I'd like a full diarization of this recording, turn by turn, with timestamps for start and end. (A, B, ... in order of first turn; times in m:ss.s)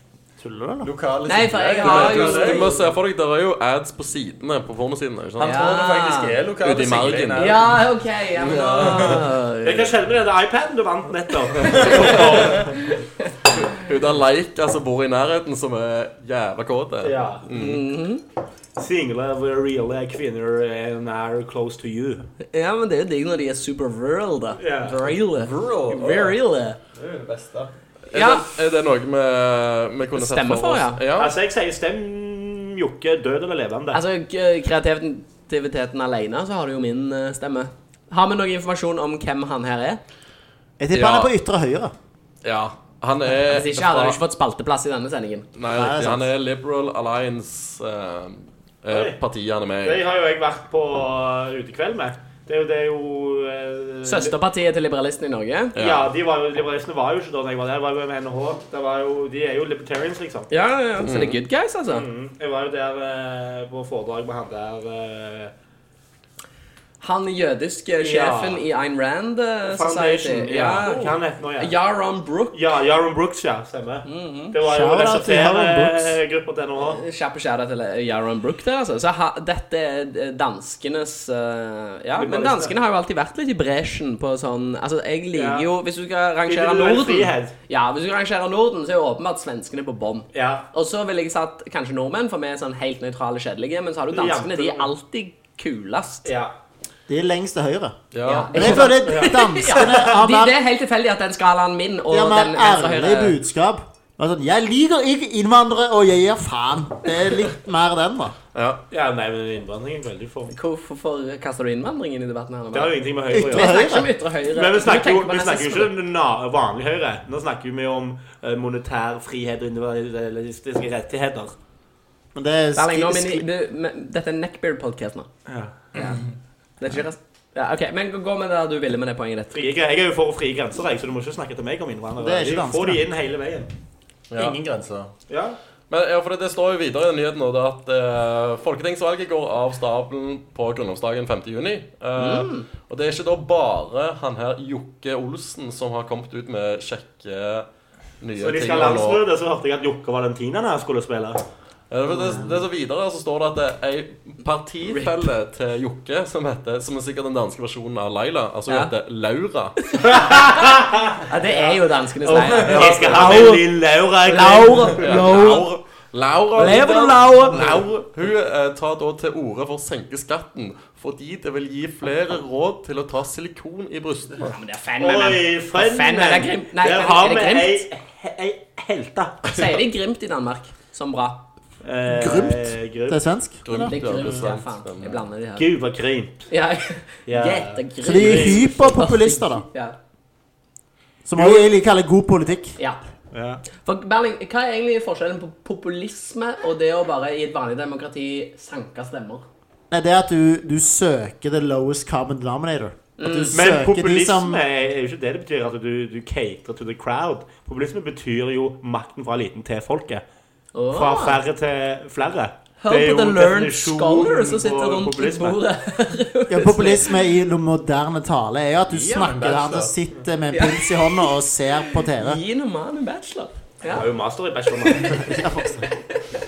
0:00.4-0:00.9 A
0:00.8-0:02.8 B
0:01.3-0:02.8 C
0:01.8-0:05.7 D
0:05.4-0:07.8 B
0:05.4-0:06.4 C
0:06.6-0:07.6 D
0:07.4-0:10.0 C
0:08.4-0:09.3 B
0:08.5-0:09.2 D
0:09.6-0:13.0 E
0:11.6-0:12.7 D
0:13.6-0:17.8 D
0:17.0-0:17.4 E
0:17.5-0:18.2 C
0:18.8-0:22.2 E
0:22.5-0:26.8 C
0:24.6-0:25.0 E
0:24.8-0:26.4 B
0:26.9-0:27.7 B
0:28.1-0:31.3 D
0:28.1-0:28.5 C
0:30.1-0:31.0 C
0:31.2-0:34.0 E
0:33.9-0:40.0 C
0:40.8-0:41.9 A
0:40.9-0:41.3 D
0:42.4-0:44.2 D
0:43.5-0:45.5 C
0:45.6-0:50.0 D
0:45.7-0:46.3 A
0:48.9-0:49.2 E
0:49.8-0:54.3 E
0:54.0-0:55.8 C
0:55.8-0:56.1 D
0:55.8-1:00.5 E
1:00.5-1:02.1 C
1:01.0-1:01.4 D
1:01.9-1:05.5 E
1:07.0-1:12.6 C
1:08.0-1:08.6 E
1:09.7-1:11.7 E
1:12.5-1:17.0 E
1:14.1-1:14.6 C
1:14.6-1:16.2 A
1:16.9-1:36.3 C
1:22.2-1:22.8 E
1:25.3-1:25.7 E
1:26.5-1:27.5 E
1:30.3-1:30.6 E
1:34.1-1:34.9 E
1:36.2-1:36.5 E
1:37.1-1:38.0 A
1:38.1-1:38.8 D
1:38.2-1:43.4 C
1:38.5-1:40.6 A
1:39.0-1:40.0 E
1:42.1-1:48.4 A
1:48.5-1:48.8 D
1:48.9-1:50.5 E
1:50.5-1:55.9 C
1:52.7-2:01.5 E
1:53.3-1:54.1 A
2:02.4-2:03.5 A
2:02.8-2:05.3 C
2:05.5-2:05.8 E
2:06.8-2:09.6 C
2:09.5-2:13.7 E
2:12.2-2:13.0 A
2:14.3-2:14.6 D
2:14.3-2:15.1 B
2:15.3-2:15.6 E
2:15.9-2:27.7 D
2:22.2-2:22.7 C
2:28.2-2:29.2 D
2:28.4-2:31.4 E
2:31.9-2:39.8 D
2:34.9-2:35.3 C
2:39.9-2:40.5 C
2:40.0-2:45.1 E
2:41.2-2:43.7 C
2:42.5-2:43.2 B
2:42.8-2:43.4 D
2:44.2-2:45.8 C
2:45.0-2:54.6 D
2:46.6-2:47.8 C
2:46.6-2:47.8 B
2:54.4-2:57.8 C
2:55.0-2:59.5 E
2:59.5-3:01.4 C
3:01.8-3:03.2 E
3:02.1-3:03.9 A
3:03.7-3:05.2 D
3:03.9-3:05.7 C
3:05.6-3:06.5 E
3:06.5-3:10.0 C
3:07.3-3:08.9 E
3:08.0-3:09.6 A
3:11.2-3:12.8 A
3:13.3-3:13.6 E
3:13.8-3:19.5 C
3:19.9-3:24.6 A
3:23.2-3:23.6 C
3:23.5-3:30.2 E
3:30.7-3:31.4 C
3:30.9-3:35.6 E
3:32.8-3:37.1 C
3:36.5-3:42.4 A
3:38.9-3:39.9 B
3:40.5-3:44.1 C
3:43.9-3:45.4 E
3:44.8-3:45.4 C
3:45.2-3:45.8 A
3:45.9-3:46.2 C